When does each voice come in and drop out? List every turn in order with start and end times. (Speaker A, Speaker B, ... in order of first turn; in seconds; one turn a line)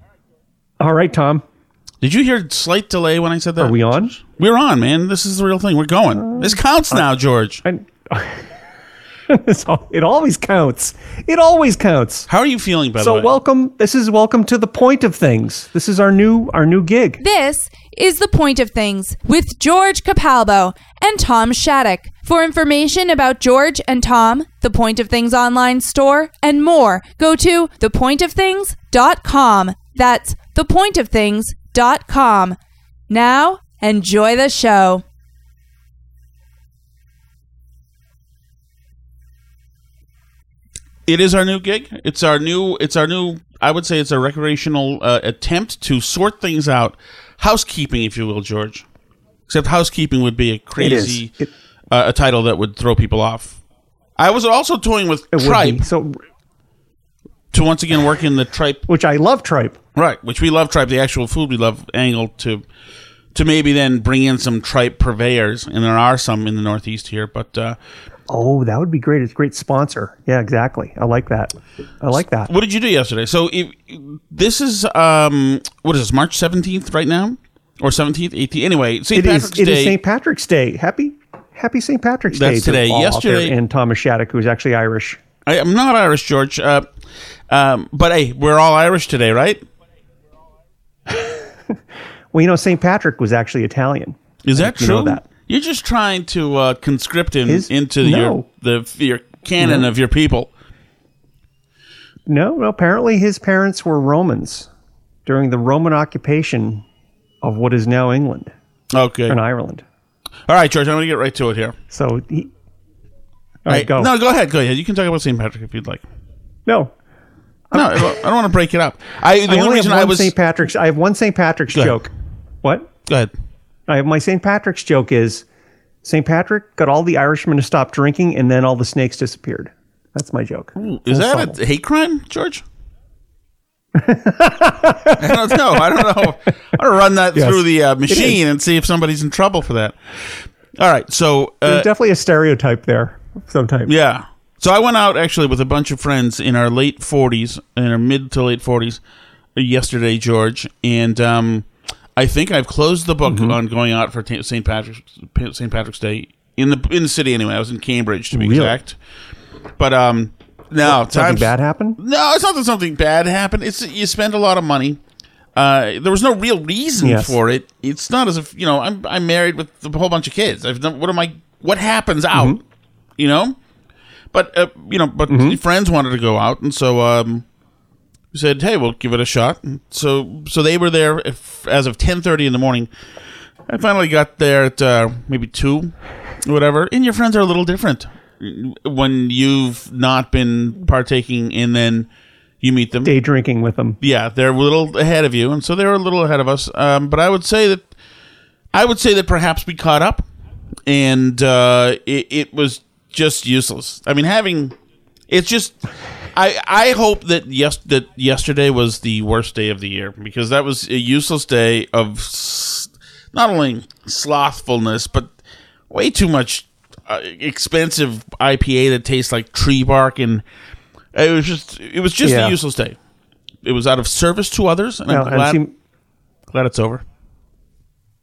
Speaker A: 0.8-1.4
Speaker B: 2.0-7.6
Speaker A: 3.6-4.2
Speaker A: 6.1-7.0
Speaker A: 7.6-8.5
Speaker A: 9.3-12.3
Speaker B: 12.3-13.3
Speaker A: 13.0-17.2
Speaker C: 17.2-32.6
Speaker C: 33.1-35.0
Speaker B: 41.1-48.9
Speaker B: 49.5-51.3
Speaker A: 50.8-51.5
Speaker B: 51.9-53.6
Speaker B: 54.2-55.8
Speaker A: 55.3-56.2
Speaker B: 57.5-58.8
Speaker A: 58.9-59.8
Speaker B: 59.9-62.6
Speaker B: 63.3-67.8
Speaker A: 68.3-72.5
Speaker B: 72.5-80.0
Speaker A: 79.1-85.2
Speaker B: 82.3-83.5
Speaker B: 85.5-86.9
Speaker B: 87.5-89.6
Speaker A: 91.1-91.8
Speaker A: 92.3-95.2
Speaker B: 94.4-100.5
Speaker A: 97.5-98.4
Speaker A: 99.6-99.9
Speaker A: 102.3-104.7
Speaker A: 105.2-106.8
Speaker A: 107.4-108.5
Speaker B: 108.9-109.4
Speaker A: 109.3-109.8
Speaker B: 110.5-111.8
Speaker A: 111.9-112.5
Speaker A: 113.7-114.1
Speaker B: 113.7-116.0
Speaker A: 116.7-116.9
Speaker A: 117.7-118.2
Speaker B: 117.7-120.3
Speaker A: 119.5-122.9
Speaker B: 123.0-123.3
Speaker A: 123.9-125.4
Speaker A: 126.0-131.6
Speaker B: 130.8-132.6
Speaker A: 133.9-136.3
Speaker B: 135.2-141.9
Speaker A: 137.3-138.4
Speaker A: 141.6-143.9
Speaker B: 143.8-149.0
Speaker B: 149.5-159.0
Speaker A: 153.2-153.6
Speaker A: 158.3-158.8
Speaker B: 159.8-165.0
Speaker A: 160.8-162.0
Speaker B: 165.6-172.6
Speaker A: 167.0-167.4
Speaker A: 172.3-172.6
Speaker B: 173.2-173.6
Speaker B: 174.3-177.4
Speaker A: 175.3-175.6
Speaker B: 178.3-182.9
Speaker B: 183.7-192.1
Speaker B: 192.6-193.1
Speaker A: 193.0-194.0
Speaker B: 194.0-197.9
Speaker B: 198.7-200.2
Speaker B: 200.8-204.8
Speaker B: 205.3-205.8
Speaker B: 206.3-215.3
Speaker B: 215.9-220.4
Speaker B: 221.1-223.0
Speaker A: 222.2-222.6
Speaker B: 223.6-225.6
Speaker A: 225.1-225.7
Speaker B: 226.5-227.0